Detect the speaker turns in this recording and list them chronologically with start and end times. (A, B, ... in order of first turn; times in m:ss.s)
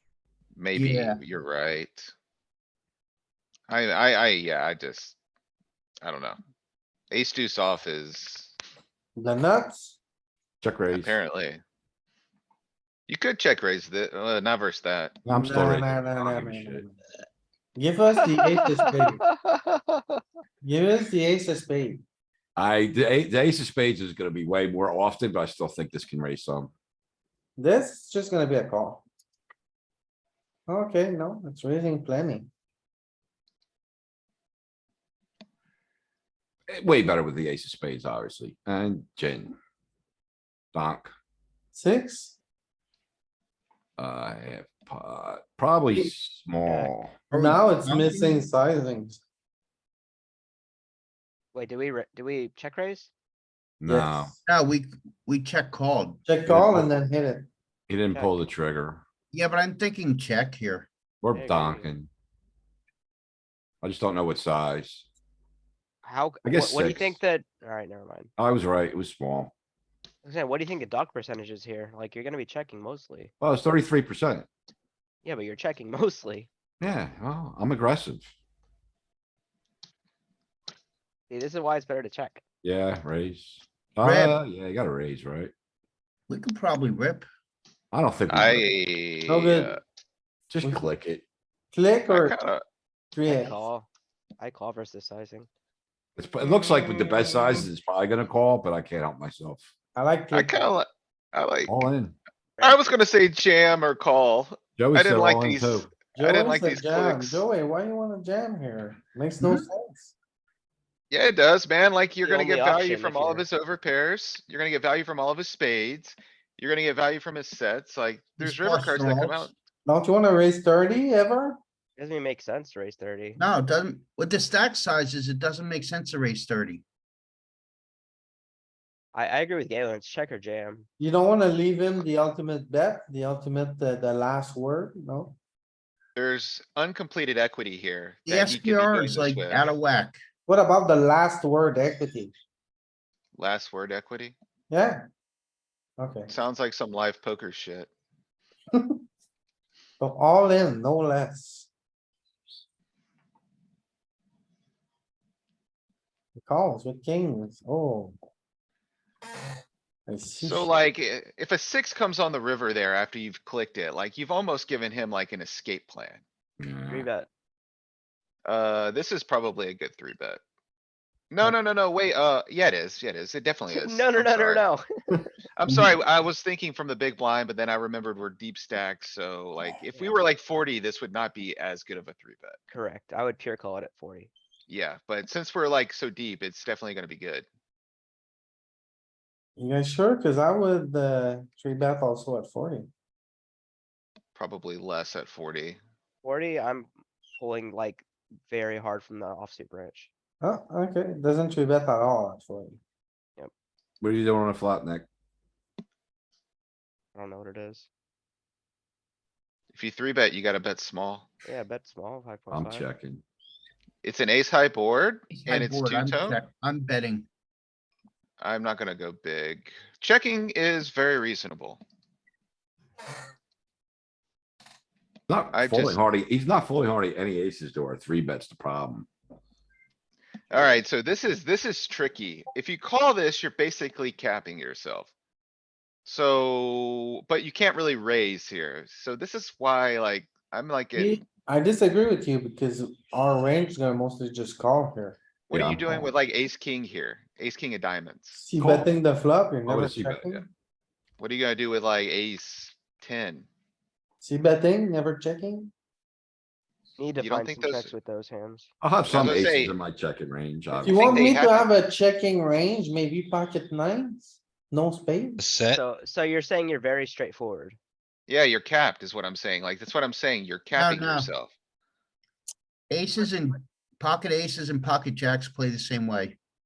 0:00.6-0:02.1 A
0:00.7-0:01.2 B
0:03.7-0:05.2 A
0:06.0-0:06.4 A
0:07.1-0:08.5 A
0:09.2-0:10.0 C
0:10.6-0:11.1 D
0:10.9-0:11.6 A
0:13.1-0:15.2 A
0:15.2-0:16.8 D
0:15.4-0:17.0 C
0:17.8-0:19.2 C
0:18.3-0:20.0 E
0:20.6-0:22.0 C
0:22.6-0:26.7 D
0:27.6-0:29.0 C
0:30.7-0:32.5 C
0:36.7-0:39.5 D
0:40.7-0:41.1 D
0:41.7-0:42.4 C
0:44.0-0:47.1 D
0:47.3-0:48.5 B
0:47.4-0:49.2 C
0:51.5-0:53.1 E
0:53.8-0:54.3 D
0:53.9-0:54.2 C
0:54.5-0:56.2 B
0:56.2-0:57.5 C
0:56.5-0:56.9 D
0:57.9-0:59.0 D
0:58.1-0:58.4 E
0:59.3-1:00.9 B
1:01.2-1:02.1 D
1:01.3-1:01.9 E
1:03.8-1:05.0 D
1:06.0-1:08.3 E
1:06.4-1:07.2 D
1:08.4-1:09.5 D
1:10.2-1:13.3 E
1:13.4-1:14.5 D
1:15.2-1:16.5 E
1:16.8-1:18.3 D
1:21.3-1:22.4 E
1:22.6-1:25.5 D
1:24.0-1:24.4 B
1:26.3-1:27.2 B
1:27.9-1:28.8 D
1:28.3-1:29.8 A
1:29.3-1:29.8 C
1:30.5-1:31.2 D
1:31.7-1:32.4 C
1:32.1-1:32.6 A
1:33.1-1:33.5 C
1:33.3-1:33.9 E
1:34.4-1:35.5 E
1:36.2-1:39.7 D
1:39.9-1:40.8 C
1:40.3-1:41.8 A
1:41.7-1:42.2 D
1:42.6-1:47.4 A
1:44.8-1:45.9 D
1:46.2-1:50.1 C
1:49.4-1:49.6 B
1:51.1-1:59.5 A
1:52.2-1:53.4 E
1:58.4-1:59.5 B
1:59.8-2:01.6 C
2:02.0-2:03.4 E
2:03.4-2:06.8 B
2:09.1-2:10.9 E
2:11.0-2:15.4 C
2:16.1-2:19.7 A
2:18.3-2:20.2 B
2:20.4-2:22.3 C
2:23.3-2:24.3 A
2:24.7-2:25.0 C
2:26.0-2:26.3 C
2:26.3-2:27.9 A
2:28.7-2:29.0 C
2:30.0-2:31.7 C
2:36.3-2:38.2 C
2:40.1-2:40.7 C
2:40.4-2:46.2 A
2:46.6-2:47.1 D
2:46.9-2:47.3 E
2:48.4-2:50.4 A
2:51.3-2:54.6 A
2:53.6-2:55.3 E
2:55.6-3:02.6 A
2:55.7-2:55.9 B
2:59.9-3:00.2 E
3:02.7-3:04.3 E
3:04.7-3:07.4 A
3:09.6-3:12.9 C
3:14.3-3:15.8 A
3:16.2-3:20.1 E
3:20.4-3:22.8 C
3:24.0-3:25.0 D
3:27.1-3:27.9 E
3:29.7-3:31.4 A
3:31.4-3:32.9 E
3:32.5-3:33.2 D
3:34.0-3:36.4 A
3:35.3-3:37.3 B
3:38.4-3:41.8 A
3:45.3-3:49.1 D
3:45.5-3:46.0 A
3:50.5-3:55.1 A
3:56.0-4:01.2 A
4:01.0-4:05.2 C
4:05.5-4:08.4 A
4:05.5-4:05.8 D
4:08.4-4:10.5 C
4:08.6-4:08.9 D
4:09.6-4:10.4 D
4:11.2-4:13.5 A
4:14.2-4:15.7 C
4:17.0-4:18.7 E
4:17.2-4:17.9 A
4:18.8-4:21.2 D
4:19.0-4:19.8 A
4:20.8-4:21.7 A
4:20.8-4:25.4 C
4:25.6-4:27.8 E
4:28.3-4:31.5 A
4:30.7-4:31.3 B
4:32.9-4:36.4 B